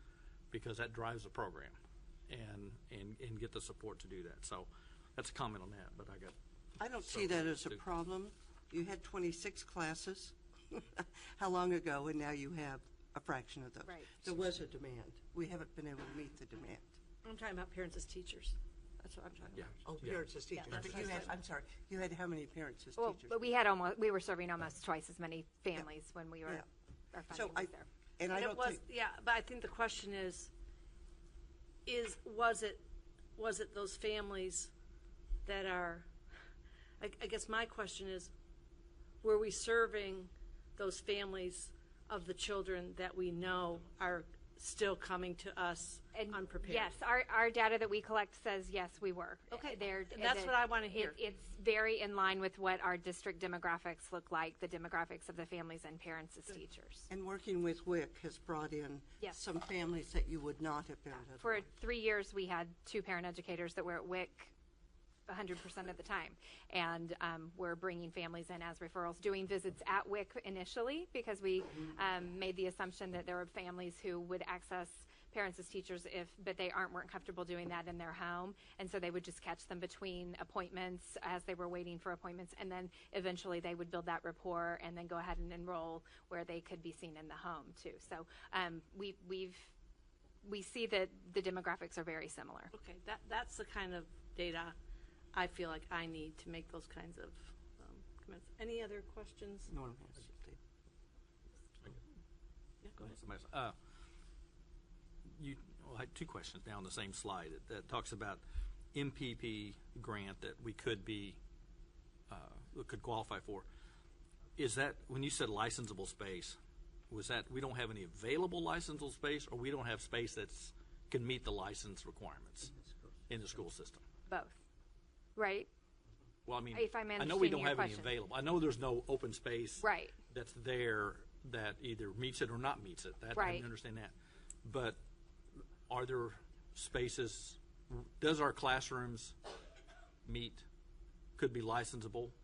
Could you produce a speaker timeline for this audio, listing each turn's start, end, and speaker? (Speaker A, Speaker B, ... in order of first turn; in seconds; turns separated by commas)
Speaker A: 0.5-1.8, Speaker A: 2.3-6.4, Speaker B: 6.8-17.0, Speaker A: 6.9-7.8, Speaker C: 13.8-14.2, Speaker D: 17.2-18.6, Speaker B: 19.0-23.5, Speaker A: 19.6-20.2, Speaker D: 20.5-21.4, Speaker C: 23.0-27.9, Speaker B: 27.3-28.8, Speaker D: 28.3-30.5, Speaker D: 31.9-32.8, Speaker D: 33.4-34.7, Speaker D: 35.5-36.1, Speaker D: 37.0-38.3, Speaker D: 39.2-47.0, Speaker C: 46.1-57.1, Speaker D: 49.5-51.2, Speaker B: 57.1-61.7, Speaker C: 61.4-64.5, Speaker C: 65.3-89.7, Speaker C: 90.4-92.7, Speaker D: 92.7-94.8, Speaker D: 95.3-99.7, Speaker B: 99.7-100.6, Speaker A: 103.0-103.8, Speaker A: 105.3-108.4, Speaker A: 108.9-111.4, Speaker A: 112.3-113.7, Speaker A: 114.6-116.6, Speaker A: 117.1-122.8, Speaker A: 123.3-124.0, Speaker C: 124.3-124.6, Speaker C: 125.4-125.7, Speaker A: 126.5-135.0, Speaker C: 126.7-128.1, Speaker C: 129.8-130.2, Speaker C: 133.3-133.7, Speaker A: 135.9-139.4, Speaker A: 140.2-140.7, Speaker A: 141.4-142.3